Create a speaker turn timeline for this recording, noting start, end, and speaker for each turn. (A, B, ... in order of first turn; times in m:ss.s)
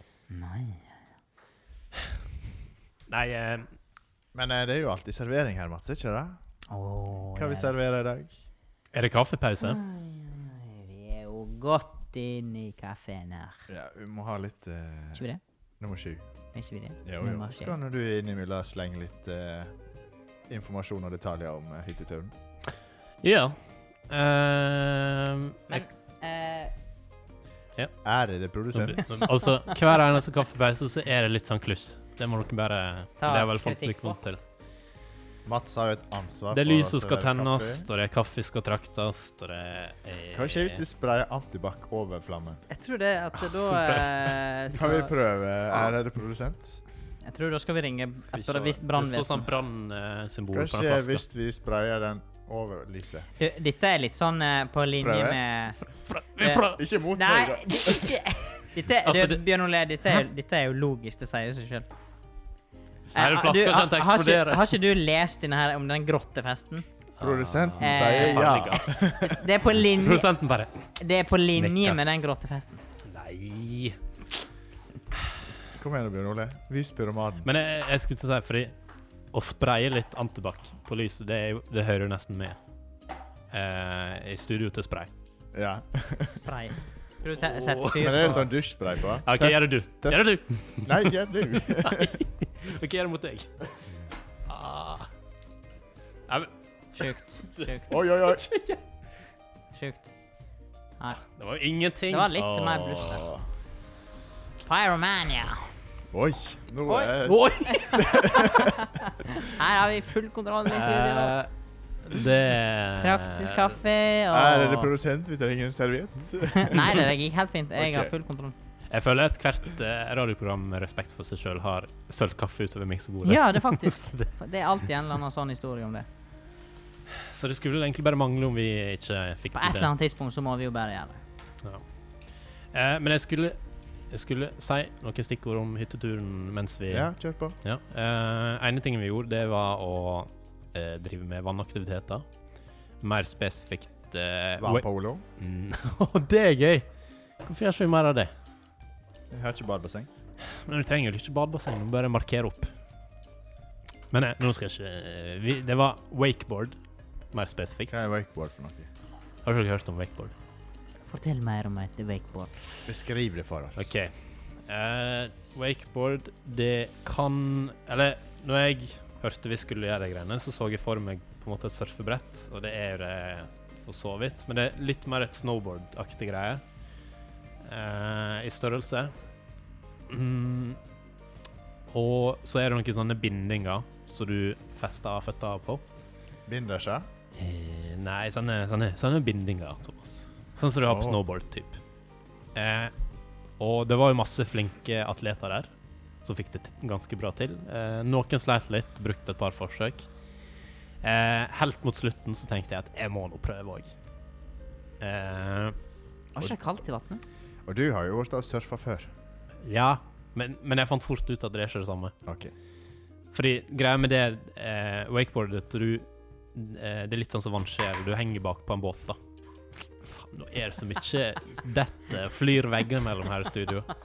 0:00.3-0:01.0 A
0:03.1-0:03.7 B
0:04.3-0:06.4 C
0:06.7-0:07.7 A
0:07.3-0:08.3 C
0:08.9-0:09.8 B
0:09.6-0:13.6 A
0:13.7-0:15.2 C
0:15.1-0:15.4 A
0:15.8-0:16.2 C
0:16.5-0:17.7 A
0:17.0-0:19.7 C
0:20.5-0:22.3 C
0:23.2-0:25.8 B
0:25.7-0:26.7 A
0:28.0-0:29.3 C
0:28.7-0:34.4 B
0:33.2-0:34.2 A
0:35.4-0:37.9 C
0:36.5-0:40.8 B
0:40.3-0:42.6 C
0:42.7-0:45.1 A
0:43.6-0:44.1 B
0:44.7-0:46.8 C
0:47.2-0:49.5 A
0:48.3-0:51.2 B
0:50.5-0:53.3 C
0:53.4-0:55.8 A
0:55.0-0:55.4 C
0:56.0-0:56.8 B
0:56.4-1:01.9 A
0:56.7-0:58.2 C
0:59.0-0:59.4 B
1:03.1-1:06.8 A
1:03.1-1:04.8 B
1:07.2-1:09.2 B
1:07.2-1:09.4 C
1:07.8-1:10.3 A
1:09.7-1:10.9 B
1:11.0-1:12.8 A
1:11.6-1:12.0 B
1:13.0-1:14.0 B
1:15.7-1:17.5 C
1:17.4-1:18.7 B
1:19.3-1:22.6 B
1:23.5-1:25.1 B
1:25.5-1:26.3 C
1:26.3-1:28.5 A
1:27.4-1:28.4 B
1:28.0-1:32.1 C
1:29.2-1:33.7 B
1:34.5-1:35.1 B
1:36.3-1:38.8 B
1:37.0-1:38.0 A
1:37.9-1:38.5 C
1:39.7-1:40.1 A
1:41.2-1:42.8 B
1:42.1-1:43.3 A
1:42.4-1:43.4 C
1:44.6-1:45.7 A
1:46.1-1:48.8 C
1:46.9-1:51.4 A
1:47.2-1:48.3 B
1:50.7-1:51.5 B
1:52.0-1:53.8 B
1:53.0-1:54.9 A
1:54.3-1:57.1 C
1:56.5-1:58.5 A
1:57.8-1:58.1 C
1:58.9-2:04.3 B
2:03.2-2:06.0 A
2:07.2-2:09.9 B
2:09.5-2:11.2 A
2:12.7-2:13.6 B
2:14.1-2:17.1 B
2:16.9-2:17.6 C
2:17.6-2:22.2 B
2:23.0-2:24.8 B
2:24.6-2:25.2 C
2:25.4-2:26.9 B
2:27.4-2:28.3 B
2:29.3-2:30.1 C
2:30.5-2:32.7 B
2:34.1-2:36.8 B
2:37.3-2:38.0 B
2:37.9-2:38.9 C
2:39.4-2:40.3 B
2:41.1-2:42.5 A
2:42.8-2:43.9 C
2:43.8-2:56.6 B
2:57.6-2:59.1 B
3:00.1-3:00.8 B
3:01.9-3:05.8 B
3:06.4-3:07.1 C
3:07.4-3:11.8 B
3:10.8-3:11.2 C
3:12.5-3:12.9 B
3:13.6-3:15.7 B
3:16.2-3:20.1 B
3:21.0-3:23.9 B
3:25.0-3:25.8 B
3:26.3-3:27.2 A
3:27.6-3:29.1 C
3:29.6-3:32.1 B
3:32.2-3:32.5 C
3:33.3-3:39.2 B
3:40.0-3:43.9 B